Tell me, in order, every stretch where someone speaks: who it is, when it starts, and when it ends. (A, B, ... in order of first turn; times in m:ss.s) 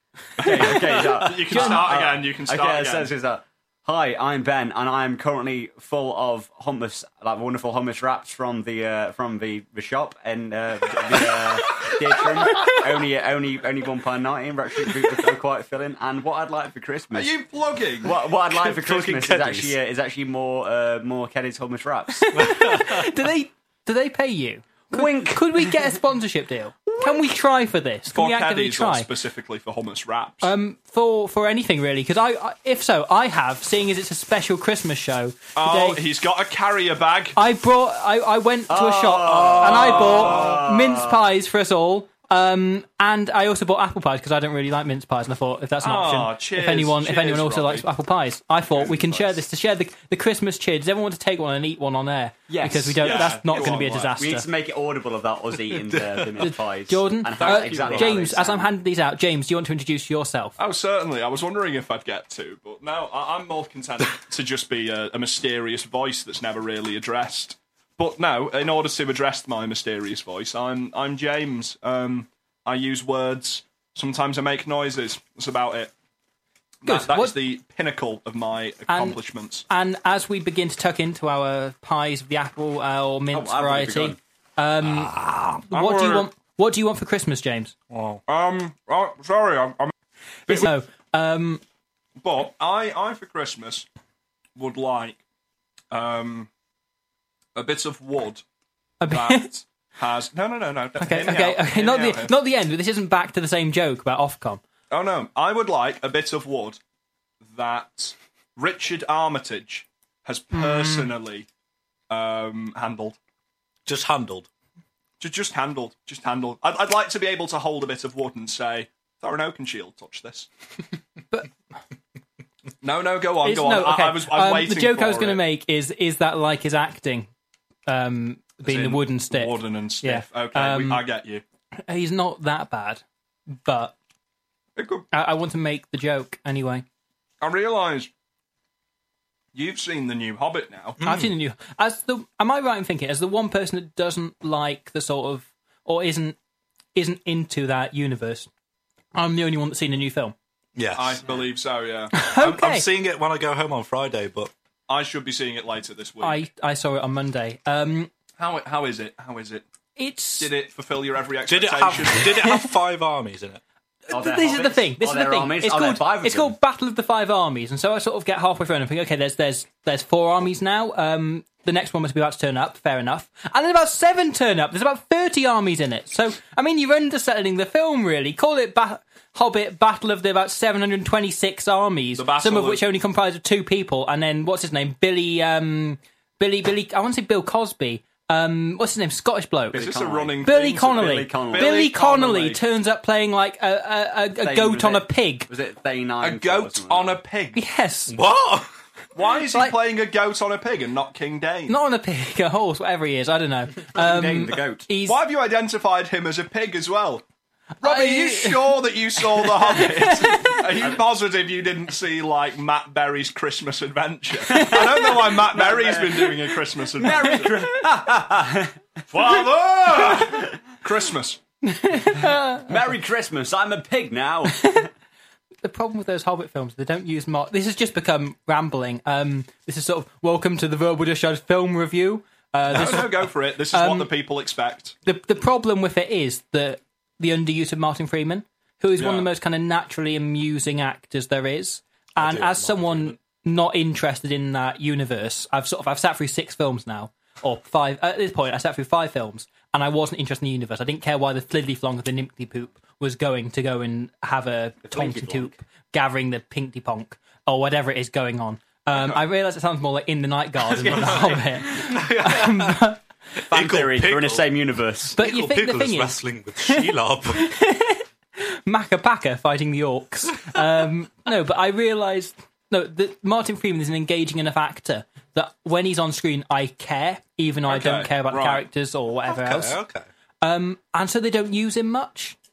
0:00.4-0:03.1 A
0:00.4-0:17.3 B
0:01.5-0:01.8 C
0:17.1-0:18.2 A
0:18.0-0:22.5 B
0:18.6-0:19.7 D
0:18.8-0:19.7 A
0:22.2-0:29.1 C
0:22.4-0:23.0 D
0:24.9-0:25.8 B
0:26.9-0:27.3 B
0:28.1-0:30.5 A
0:30.4-0:36.0 C
0:35.6-0:37.4 A
0:37.4-0:54.5 C
0:38.7-0:41.2 B
0:39.3-0:40.7 A
0:45.8-0:47.9 A
0:48.8-0:49.3 A
0:52.5-0:58.7 B
0:53.0-0:54.2 A
0:55.7-0:56.5 D
0:56.4-1:00.6 C
0:57.7-0:58.2 A
0:57.8-0:58.1 D
1:00.6-1:15.9 A
1:16.8-1:17.3 C
1:16.8-1:19.7 A
1:18.9-1:19.2 C
1:19.7-1:25.1 C
1:23.3-1:24.2 B
1:24.8-1:25.6 D
1:25.7-1:27.7 C
1:25.7-1:26.3 A
1:27.9-1:28.2 D
1:28.3-1:29.9 A
1:30.5-1:31.6 C
1:32.2-1:33.9 A
1:34.6-1:35.2 A
1:35.9-1:36.5 A
1:37.6-1:38.4 A
1:39.0-1:39.5 C
1:39.1-1:42.3 A
1:41.0-1:44.6 C
1:44.9-1:46.8 A
1:47.5-1:51.5 A
1:50.6-1:51.1 C
1:52.1-1:53.2 A
1:53.9-1:54.5 D
1:55.2-2:00.5 A
2:02.8-2:05.4 A
2:03.4-2:07.3 C
2:07.9-2:11.0 C
2:08.6-2:11.4 A
2:11.9-2:14.0 C
2:14.8-2:15.0 A
2:15.1-2:16.8 C
2:17.4-2:18.1 A
2:19.5-2:21.0 A
2:21.0-2:21.3 D
2:21.0-2:26.4 C
2:27.0-2:28.5 C
2:29.2-2:30.3 C
2:30.8-2:31.2 D
2:31.0-2:32.1 A
2:32.1-2:32.8 C
2:32.4-2:34.5 D
2:34.9-2:36.4 A
2:36.2-2:38.1 C
2:38.4-2:39.6 A
2:40.0-2:40.5 C
2:40.4-2:42.5 A
2:41.5-2:43.6 D
2:44.1-3:09.8 C
2:44.1-2:46.6 B
3:02.2-3:02.8 A
3:09.7-3:12.0 B
3:09.7-3:12.6 A
3:10.4-3:15.5 C
3:14.4-3:17.2 B
3:16.2-3:17.6 A
3:17.6-3:18.2 C
3:18.1-3:18.7 D
3:19.2-3:21.8 A
3:21.7-3:25.2 C
3:23.9-3:24.8 B
3:25.0-3:27.2 A
3:27.8-3:37.6 A
3:27.8-3:30.6 C
3:34.5-3:35.3 C
3:34.6-3:36.5 B
3:37.0-3:39.5 B
3:39.1-3:41.4 A
3:40.0-3:40.3 B
3:41.6-3:42.8 C
3:42.7-3:44.9 B
3:44.5-3:44.9 C
3:45.6-3:53.2 C
3:52.7-3:55.0 A
3:53.7-3:54.1 C
3:55.0-4:23.0 C
3:59.0-3:59.3 A
4:02.2-4:03.2 D
4:14.8-4:15.5 B
4:18.9-4:19.2 A
4:20.6-4:22.0 B
4:21.9-4:22.9 D
4:23.4-4:25.2 B
4:23.5-4:24.6 D
4:25.1-4:27.5 D
4:25.1-4:39.8 C
4:37.7-4:38.6 A
4:39.3-4:40.1 D
4:40.4-4:42.4 C